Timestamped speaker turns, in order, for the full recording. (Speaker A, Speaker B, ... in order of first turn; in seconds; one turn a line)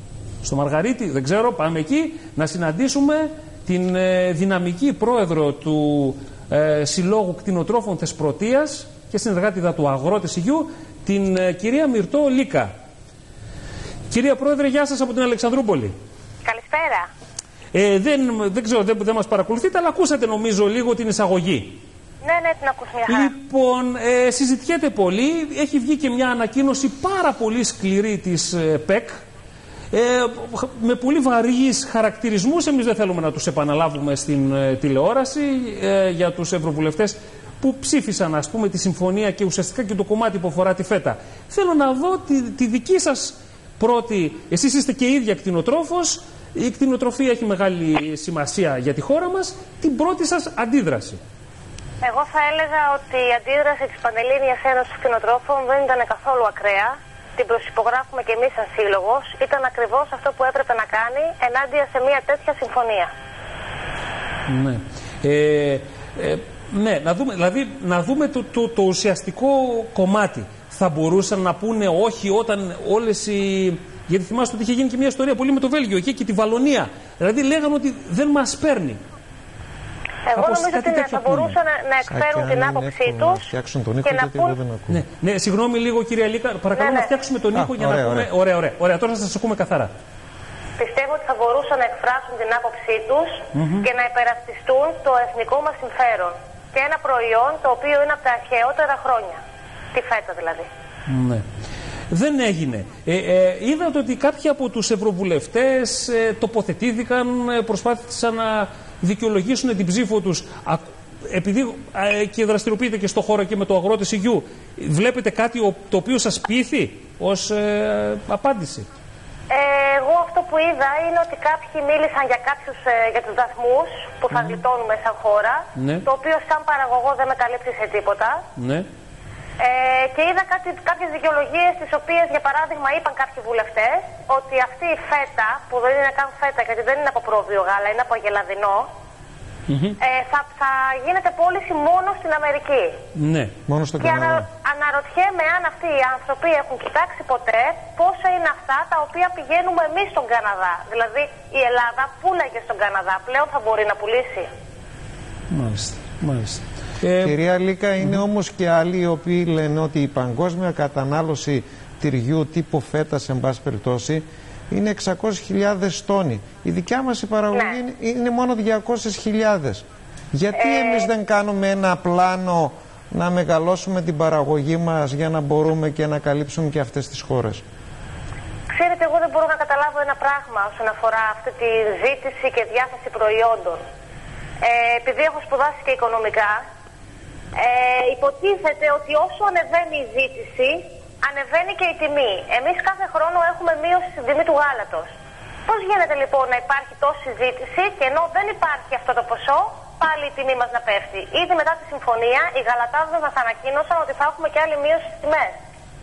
Speaker A: 0.4-12.7
Speaker A: 14.1-15.9
Speaker B: 16.4-17.1
Speaker A: 17.7-21.8
Speaker B: 22.2-23.3
Speaker A: 23.1-29.2
Speaker A: 29.9-51.2
Speaker B: 52.0-63.1
Speaker A: 64.5-79.0
Speaker B: 80.2-83.5
Speaker A: 80.3-81.5
Speaker C: 82.1-85.0
Speaker B: 84.0-84.6
Speaker A: 84.9-89.9
Speaker B: 86.7-87.1
Speaker C: 87.5-88.3
Speaker B: 90.8-99.4
Speaker A: 93.5-93.8
Speaker B: 99.9-100.7
Speaker A: 101.1-101.4
Speaker A: 102.1-118.9
Speaker B: 119.5-128.4
Speaker A: 125.8-126.0
Speaker A: 128.6-128.9
Speaker B: 129.6-138.9
Speaker A: 139.7-140.0
Speaker B: 140.0-142.9
Speaker A: 143.1-143.5
Speaker C: 143.7-144.4
Speaker B: 144.0-154.5
Speaker A: 155.5-157.4
Speaker C: 157.2-177.6
Speaker B: 167.5-167.8
Speaker B: 170.5-171.1
Speaker B: 178.7-183.8
Speaker B: 184.6-186.6
Speaker B: 187.6-195.1
Speaker B: 195.7-205.6